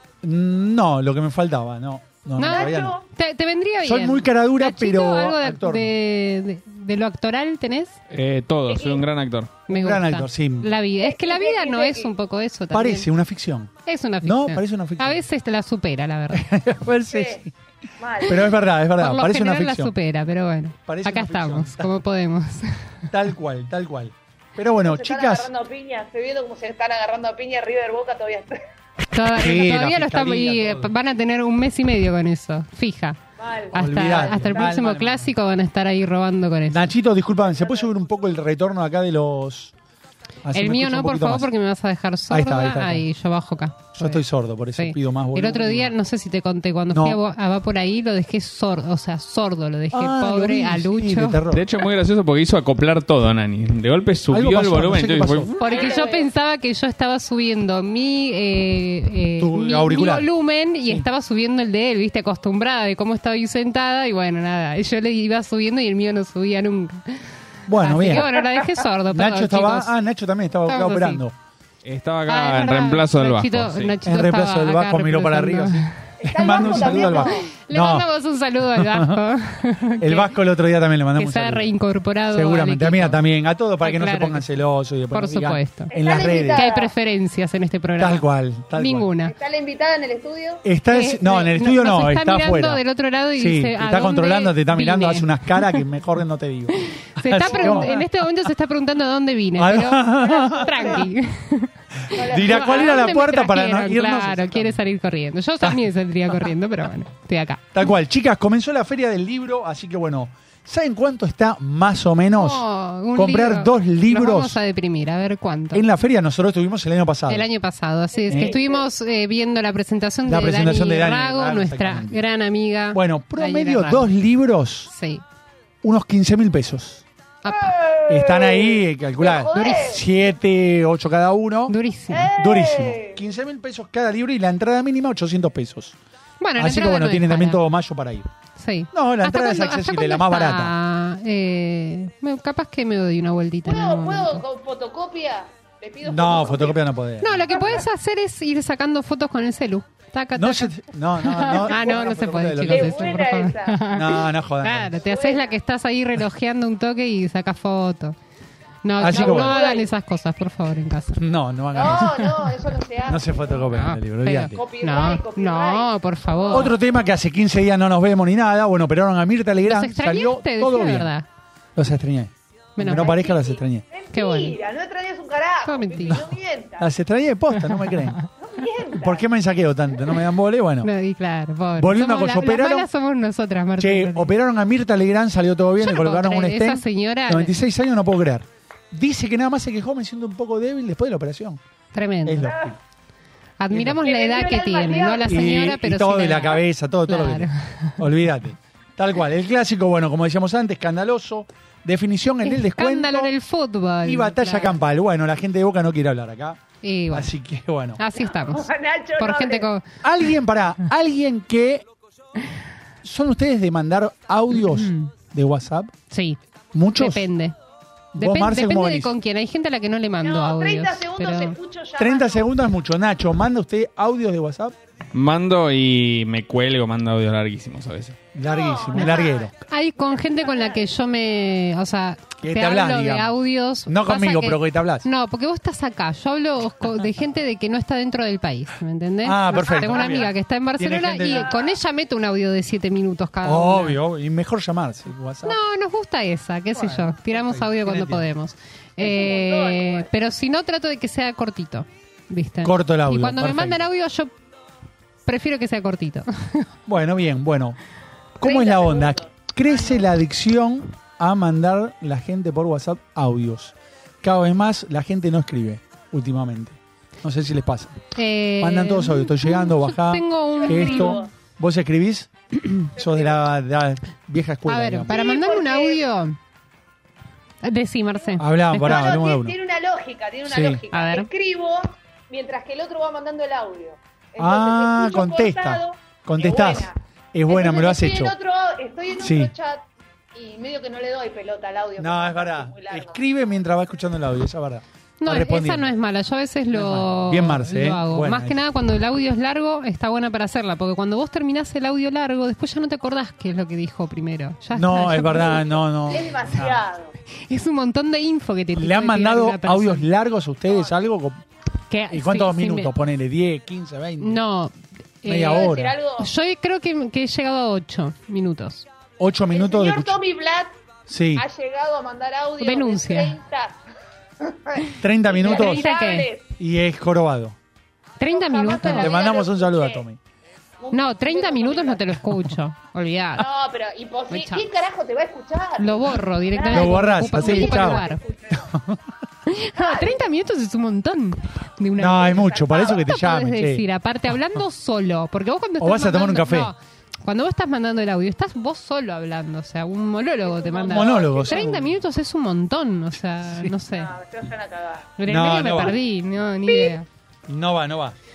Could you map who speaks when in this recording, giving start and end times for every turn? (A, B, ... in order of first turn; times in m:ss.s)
0:00.2-0:03.0 A
0:02.4-0:08.0 B
0:02.4-0:03.0 C
0:03.8-0:05.9 A
0:08.1-0:09.5 D
0:08.7-0:09.1 C
0:09.7-0:13.1 B
0:09.7-0:10.7 A
0:11.0-0:12.1 C
0:12.7-0:15.2 A
0:13.8-0:16.4 B
0:16.3-0:17.5 A
0:17.1-0:17.4 C
0:18.0-0:18.4 C
0:18.2-0:19.9 A
0:19.0-0:22.8 B
0:20.9-0:22.0 A
0:23.1-0:25.5 A
0:24.8-0:28.6 C
0:29.1-0:33.2 B
0:29.3-0:30.9 A
0:33.4-0:34.8 C
0:33.7-0:36.9 B
0:33.7-0:35.3 A
0:36.7-0:39.7 A
0:37.4-0:37.9 C
0:40.4-0:41.5 A
0:40.5-0:44.2 B
0:42.3-0:43.1 A
0:44.0-0:45.9 A
0:44.8-0:51.4 B
0:46.9-0:47.2 A
0:49.9-0:51.7 A
0:51.5-0:55.5 D
0:54.3-0:55.5 A
0:55.6-1:07.3 B
0:55.6-0:56.3 C
0:59.4-1:00.3 A
1:07.7-1:08.3 A
1:07.8-1:10.0 B
1:09.1-1:11.4 A
1:10.7-1:11.2 B
1:11.8-1:14.0 D
1:12.3-1:20.3 B
1:14.0-1:18.1 A
1:16.2-1:17.5 C
1:18.7-1:19.2 A
1:20.0-1:21.7 A
1:21.2-1:23.2 B
1:22.3-1:26.7 A
1:23.8-1:24.5 B
1:25.1-1:29.3 B
1:25.9-1:26.9 C
1:28.0-1:29.1 A
1:29.3-1:30.6 C
1:30.6-1:32.8 A
1:30.9-1:35.8 B
1:33.4-1:38.1 A
1:37.0-1:47.7 B
1:37.4-1:38.0 C
1:39.6-1:41.0 A
1:40.3-1:41.0 C
1:42.1-1:43.1 C
1:42.2-1:44.8 A
1:45.6-1:46.5 A
1:47.7-1:54.6 A
1:52.4-1:55.8 B
1:55.7-1:57.5 A
1:57.3-2:04.1 B
1:58.2-1:58.9 C
1:58.3-1:58.6 A
2:00.2-2:02.2 A
2:02.9-2:04.9 A
2:04.9-2:05.2 B
2:05.8-2:07.0 A
2:07.4-2:07.8 B
2:07.5-2:10.0 C
2:08.1-2:11.7 A
2:09.5-2:09.9 B
2:11.7-2:12.3 B
2:12.1-2:13.2 C
2:12.4-2:16.0 A
2:16.4-2:17.6 B
2:16.6-2:18.3 A
2:18.6-2:24.4 B
2:18.9-2:20.7 A
2:23.7-2:26.8 C
2:26.0-2:27.5 A
2:27.2-2:38.2 B
2:27.5-2:27.8 C
2:30.4-2:33.2 A
2:31.6-2:32.0 C
2:32.7-2:33.9 C
2:33.9-2:35.0 A
2:35.0-2:35.6 C
2:38.8-2:41.2 B
2:39.0-2:39.7 A
2:39.0-2:39.9 C
2:41.2-2:42.2 A
2:41.7-2:43.7 C
2:41.8-2:42.2 B
2:43.1-2:44.6 A
2:43.7-2:46.7 B
2:44.5-2:46.8 C
2:46.5-2:51.1 A
2:49.6-2:51.3 B
2:51.8-2:53.8 A
2:52.8-2:53.2 B
2:52.9-2:56.9 C
2:54.1-2:54.6 B
2:55.6-2:56.2 B
2:56.8-2:58.2 A
2:57.8-2:58.2 B
2:58.4-2:59.2 C
2:59.0-3:00.9 A
3:00.8-3:04.3 B
3:01.8-3:02.9 A
3:03.8-3:11.6 A
3:05.8-3:07.6 B
3:11.9-3:12.5 B
3:12.2-3:12.8 A
3:12.4-3:12.7 C
3:13.6-3:18.0 B
3:13.7-3:14.0 A
3:14.0-3:15.6 C
3:15.3-3:23.4 A
3:22.4-3:24.8 B
3:24.0-3:28.0 A
3:26.8-3:27.3 B
3:28.0-3:29.9 B
3:28.2-3:29.7 C
3:30.0-3:31.9 A
3:33.0-3:35.9 A
3:34.5-3:35.1 B
3:36.1-3:36.4 B
3:36.7-3:37.3 A
3:36.9-3:37.6 B
3:38.2-3:39.1 A
3:38.2-3:41.6 B
3:40.2-3:42.5 C
3:42.0-3:44.8 A
3:45.1-3:48.2 D
3:48.3-3:49.5 A
3:48.4-3:49.5 C
3:48.9-4:04.0 B
3:50.0-3:50.9 C
3:52.4-3:55.1 A
3:59.2-4:01.6 A
3:59.6-4:00.3 C
4:01.3-4:01.7 C
4:03.4-4:05.6 A
4:05.4-4:14.3 B
4:06.7-4:08.3 A
4:09.0-4:10.1 C
4:12.6-4:13.8 A
4:15.3-4:16.7 B
4:16.9-4:17.8 A
4:18.4-4:28.0 A
4:18.4-4:20.1 C
4:28.2-4:31.2 B
4:28.6-4:35.1 A
4:30.6-4:31.3 C
4:33.0-4:33.4 C
4:34.7-4:36.4 B
4:35.1-4:36.0 C
4:37.6-4:39.1 B
4:38.3-4:47.0 C
4:38.4-4:39.6 A
4:40.4-4:40.8 A
4:40.9-4:41.3 B
4:44.4-4:48.3 A
4:47.5-4:53.2 C
4:49.2-4:49.5 A
4:52.0-4:55.9 A
4:55.2-5:05.7 B
4:56.7-4:58.6 A
5:04.7-5:06.8 A
5:06.1-5:07.1 C
5:07.5-5:10.1 B
5:08.8-5:11.4 A
5:11.9-5:12.9 B
5:12.1-5:14.4 A
5:14.2-5:18.9 B
5:15.2-5:16.0 A
5:15.4-5:16.3 C
5:19.2-5:20.2 A
5:19.5-5:20.7 C
5:21.1-5:21.4 A
5:21.4-5:23.8 C
5:22.6-5:23.4 B
5:24.4-5:26.5 C
5:25.0-5:25.9 A
5:25.4-5:26.3 B
5:26.6-5:27.6 A
5:28.2-5:29.2 B
5:28.2-5:30.0 C
5:28.7-5:30.2 A
5:30.8-5:32.1 C
5:30.9-5:33.5 B
5:33.4-5:38.7 C
5:34.3-5:34.6 B
5:35.8-5:38.2 B
5:36.7-5:38.0 A
5:38.5-5:39.0 A
5:39.5-5:54.1 B
5:39.8-5:40.3 C
5:42.0-5:43.8 A
5:42.7-5:42.9 C
5:45.8-5:46.7 A
5:50.4-5:51.8 C
5:50.9-5:51.9 A
5:53.5-5:53.7 A
5:53.9-5:55.1 C
5:55.2-5:57.1 B
5:55.3-5:56.0 A
5:56.7-5:57.0 C
5:57.5-5:58.2 A